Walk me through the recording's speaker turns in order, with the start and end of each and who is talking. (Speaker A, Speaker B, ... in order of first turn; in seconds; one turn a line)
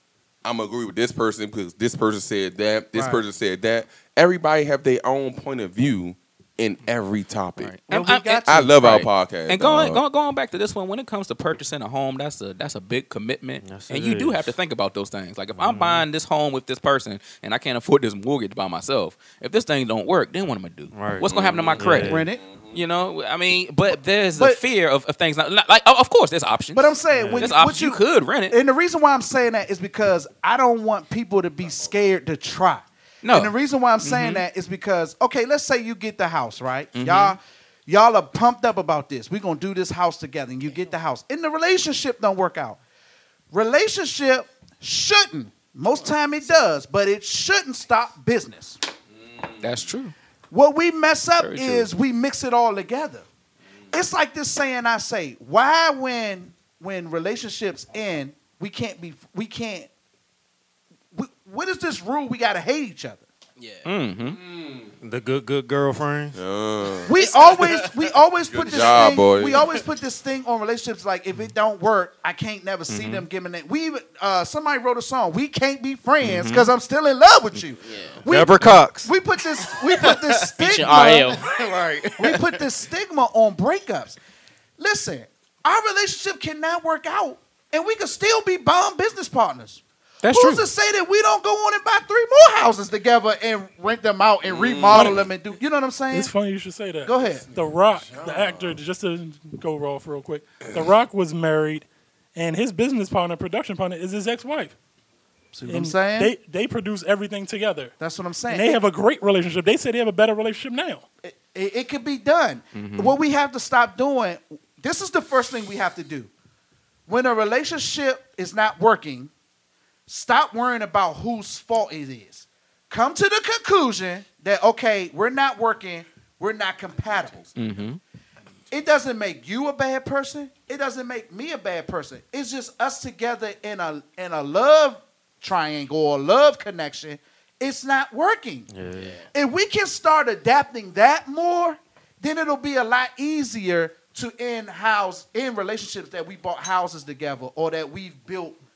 Speaker A: 0.4-7.7
Speaker B: 2.9-3.2
Speaker C: 7.9-22.2
Speaker B: 7.9-8.7
Speaker A: 8.5-10.0
Speaker D: 13.6-14.6
Speaker D: 15.6-16.1
Speaker D: 20.9-22.3
Speaker A: 21.2-22.8
Speaker B: 22.0-22.4
Speaker C: 22.7-28.6
Speaker B: 26.7-42.8
Speaker D: 27.2-27.5
Speaker C: 33.2-34.5
Speaker C: 37.0-37.4
Speaker B: 43.5-48.8
Speaker A: 49.2-49.9
Speaker C: 49.6-50.1
Speaker B: 50.5-53.3
Speaker C: 51.4-51.9
Speaker B: 53.9-59.9
Speaker B: 61.1-63.2
Speaker E: 63.6-63.9
Speaker C: 63.9-64.4
Speaker A: 64.3-64.9
Speaker D: 65.0-66.4
Speaker A: 66.3-67.1
Speaker B: 67.1-81.4
Speaker E: 67.2-67.8
Speaker A: 68.5-69.6
Speaker D: 72.9-73.2
Speaker D: 76.3-76.6
Speaker E: 77.8-78.2
Speaker D: 78.3-82.5
Speaker E: 80.6-81.5
Speaker B: 82.2-84.2
Speaker B: 84.8-96.3
Speaker C: 90.2-90.7
Speaker A: 94.4-95.3
Speaker F: 94.9-95.2
Speaker F: 96.1-104.8
Speaker B: 97.0-97.4
Speaker A: 97.3-98.8
Speaker B: 105.5-106.3
Speaker F: 105.7-107.9
Speaker B: 108.0-108.8
Speaker F: 108.5-111.0
Speaker B: 111.2-116.3
Speaker C: 112.8-113.2
Speaker B: 117.1-119.3
Speaker B: 120.1-127.4
Speaker C: 127.6-128.0
Speaker B: 128.7-138.7
Speaker D: 138.7-139.1
Speaker E: 138.9-139.3
Speaker B: 139.3-148.6